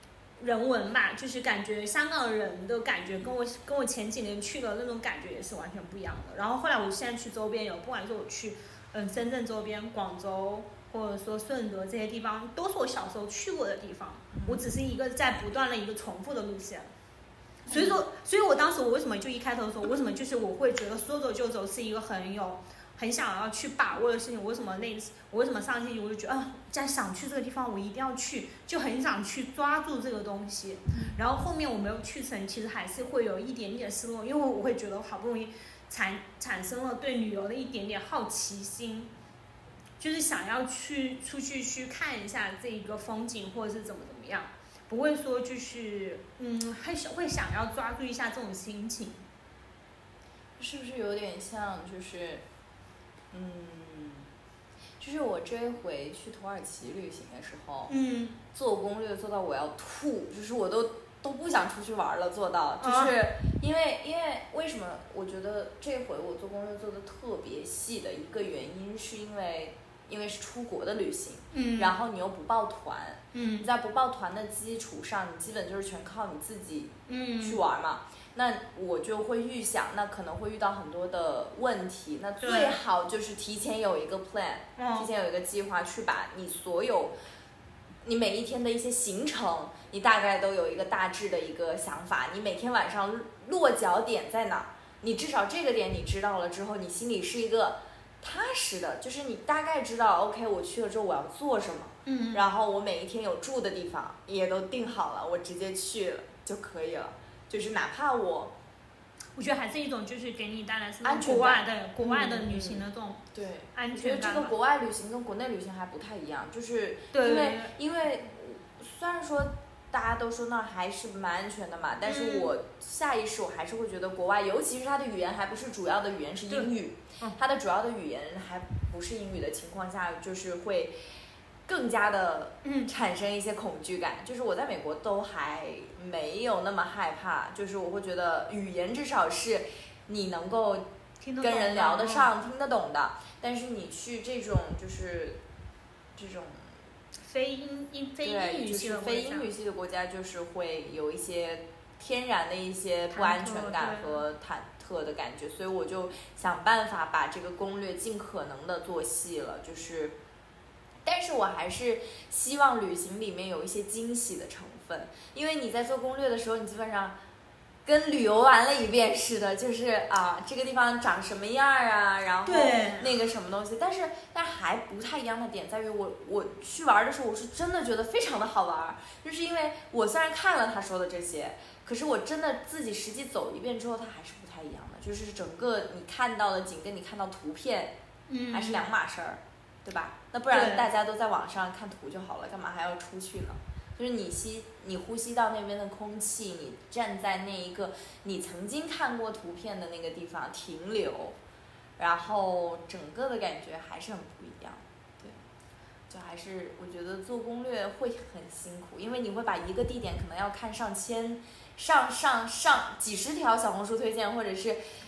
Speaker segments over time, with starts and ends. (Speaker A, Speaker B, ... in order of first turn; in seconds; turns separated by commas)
Speaker A: 0.4-16.9, Speaker B: 14.3-14.6, Speaker B: 17.7-18.0, Speaker A: 17.7-39.1, Speaker B: 30.9-31.2, Speaker A: 40.0-49.3, Speaker B: 50.6-52.5, Speaker B: 53.3-54.3, Speaker B: 55.0-57.9, Speaker A: 57.9-58.4, Speaker B: 58.5-87.1, Speaker A: 62.8-63.1, Speaker A: 71.5-71.9, Speaker A: 73.3-73.7, Speaker A: 77.1-77.6, Speaker A: 82.4-82.8, Speaker A: 84.8-85.1, Speaker B: 88.0-108.5, Speaker A: 102.0-102.5, Speaker A: 109.4-113.2, Speaker B: 111.0-131.0, Speaker A: 113.7-114.5, Speaker A: 117.1-117.7, Speaker A: 122.0-122.5, Speaker A: 126.5-127.4, Speaker B: 131.7-145.4, Speaker A: 132.6-132.9, Speaker A: 141.2-142.3, Speaker B: 146.2-146.8, Speaker A: 147.2-149.5, Speaker B: 148.2-160.2, Speaker A: 153.1-154.2, Speaker B: 161.1-167.2, Speaker B: 167.8-188.0, Speaker A: 172.4-173.1, Speaker A: 188.3-188.8, Speaker B: 188.5-201.4, Speaker A: 190.5-190.9, Speaker B: 202.0-205.4, Speaker B: 206.1-214.8